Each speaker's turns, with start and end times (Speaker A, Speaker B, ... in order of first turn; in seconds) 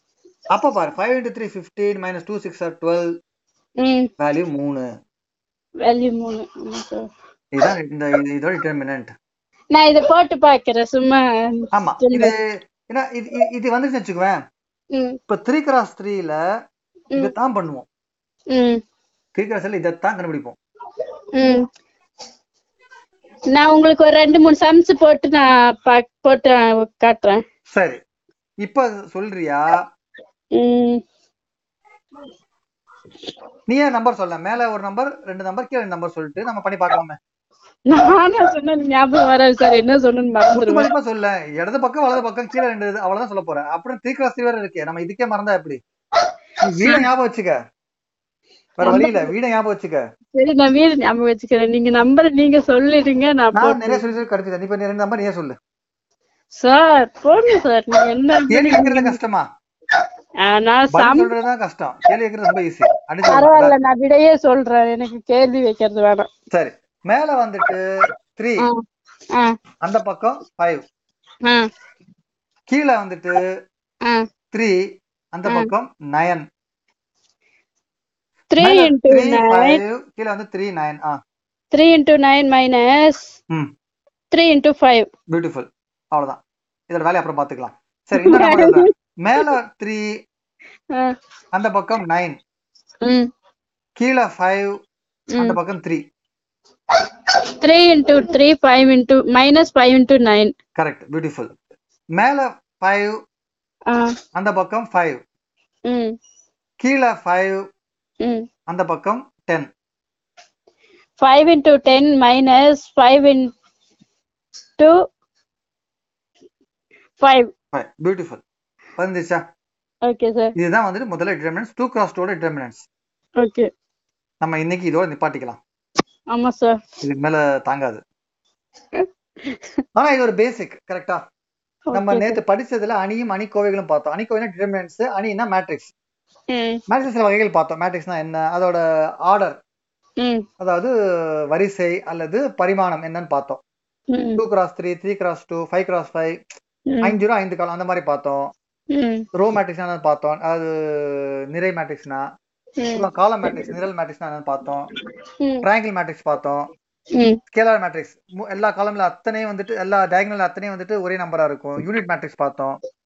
Speaker A: 0.5-3.1, 4.2-4.8, 7.5-9.1, 11.7-14.4, 15.3-16.4, 17.1-17.9, 19.3-20.6, 27.7-28.0, 28.6-29.8, 33.7-37.2, 40.5-45.8, 46.6-47.5, 48.8-50.0, 53.5-55.5, 58.5-59.5, 60.9-63.7, 66.5-67.8, 68.3-68.7, 69.8-70.8, 72.7-73.5, 75.3-76.4, 78.6-81.2, 85.3-90.0, 91.5-92.4, 94.0-94.7, 95.4-96.0, 100.8-101.5, 102.1-103.2, 104.3-105.2, 106.8-107.7, 108.7-109.7, 117.7-118.4, 119.0-119.4, 120.5-122.9, 124.4-125.6, 127.0-128.0, 129.9-131.2, 131.9-135.9, 136.9-139.6, 140.6-140.9, 141.5-143.6, 144.4-146.4, 147.0-148.5, 149.4-152.2, 153.0-154.9, 155.6-156.6, 157.5-162.8
Speaker B: 3.8-4.1, 5.8-7.1, 9.7-12.3, 14.9-15.2, 18.5-18.8, 21.3-21.6, 23.5-27.4, 30.6-31.0, 37.9-40.9, 48.8-49.3, 50.3-54.0, 56.5-59.2, 60.4-61.3, 63.3-66.3, 78.5-79.8, 81.7-83.3, 84.3-85.1, 88.2-88.9, 93.0-93.3, 96.9-100.5, 103.9-104.1, 105.9-106.2, 111.2-113.5, 117.2-117.5, 120.0-120.5, 123.4-123.7, 126.3-126.8, 128.9-129.7, 131.9-132.4, 136.5-136.8, 140.2-140.4, 144.1-144.4, 148.9-149.2, 152.8-153.7